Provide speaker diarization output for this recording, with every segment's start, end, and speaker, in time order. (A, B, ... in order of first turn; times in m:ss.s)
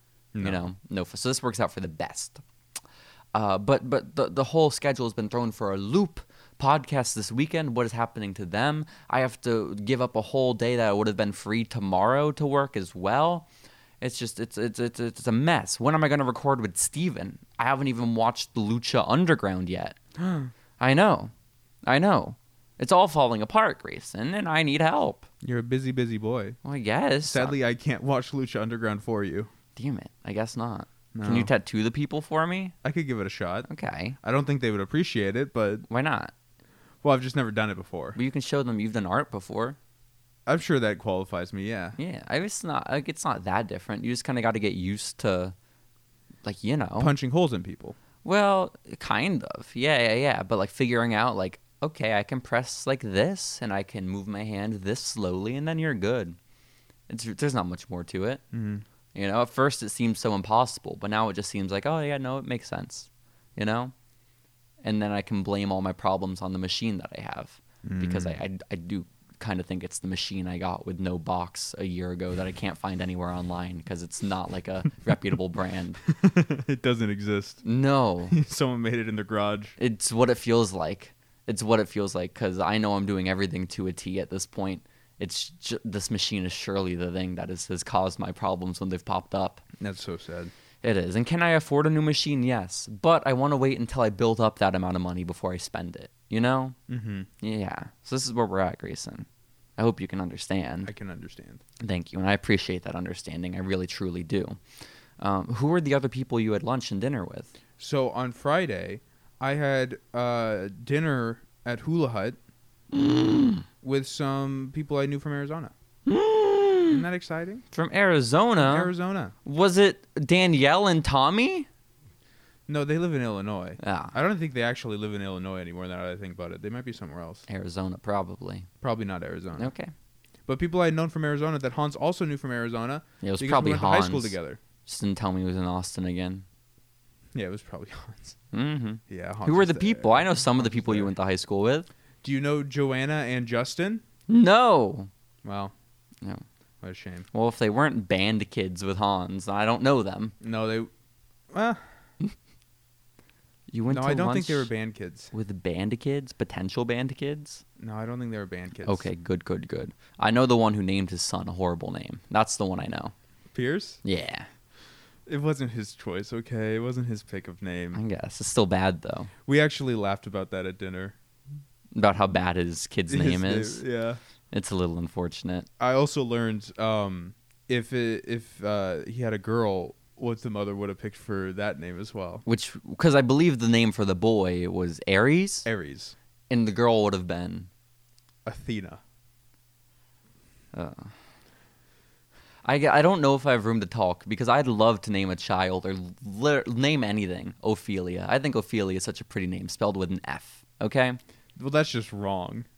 0:00.3-0:00.6 A
0:00.4-0:02.4 B
0:03.3-0:13.5 B
0:14.0-0:20.0 B
0:20.2-0:20.5 A
0:20.8-0:21.3 B
0:21.8-0:25.3 B
0:25.4-0:26.6 A
0:26.6-0:27.6 B
0:27.3-0:29.5 A
0:29.8-0:32.8 B
0:31.1-0:31.5 A
0:32.8-0:33.7 A
0:33.7-0:34.2 B
0:34.2-0:35.9 A
0:35.9-0:36.3 B
0:37.0-0:38.2 A
0:38.2-0:39.8 B
0:40.5-0:42.0 A
0:42.0-0:45.6 B
0:46.4-0:47.1 B
0:47.0-0:48.0 A
0:48.2-0:56.4 B
0:57.1-0:58.4 B
0:58.5-0:58.8 A
0:59.2-1:03.9 B
1:04.8-1:16.0 B
1:07.8-1:08.4 A
1:16.1-1:17.6 A
1:17.6-1:18.4 B
1:18.3-1:19.8 A
1:19.8-1:29.6 B
1:29.8-1:30.5 A
1:30.8-1:36.8 B
1:36.9-1:37.3 A
1:37.4-1:40.9 B
1:40.8-1:41.6 A
1:41.8-1:44.6 B
1:45.2-1:47.5 B
1:47.8-1:52.4 A
1:52.9-1:53.7 B
1:53.8-1:55.7 A
1:56.1-1:57.0 B
1:56.9-1:57.6 A
1:57.7-1:58.9 B
1:58.6-1:59.3 A
1:59.4-2:01.7 B
2:02.7-2:07.4 A
2:03.8-2:04.2 B
2:07.5-2:08.7 B
2:08.8-2:09.7 A
2:09.6-2:09.9 B
2:10.5-2:14.6 A
2:13.2-2:16.4 B
2:17.3-2:18.4 A
2:18.5-2:21.9 B
2:19.1-2:21.1 A
2:22.2-2:24.0 A
2:24.3-2:25.1 B
2:25.4-2:25.7 A
2:26.8-2:27.3 A
2:27.3-2:30.4 B
2:30.4-2:30.9 A
2:31.5-2:31.8 A
2:33.7-2:34.7 B
2:33.9-2:35.3 A
2:35.3-2:37.6 B
2:37.8-2:39.1 A
2:38.8-2:43.1 B
2:43.5-2:44.0 A
2:44.0-2:44.5 B
2:45.3-2:48.0 A
2:47.9-2:49.3 B
2:49.5-2:51.2 A
2:51.9-2:53.8 B
2:53.1-2:54.2 A
2:54.5-2:55.7 B
2:55.8-3:02.4 A
3:02.5-3:05.7 B
3:05.6-3:06.2 A
3:06.5-3:07.7 B
3:08.5-3:09.0 A
3:10.7-3:11.1 B
3:12.6-3:21.2 B
3:21.6-3:22.7 A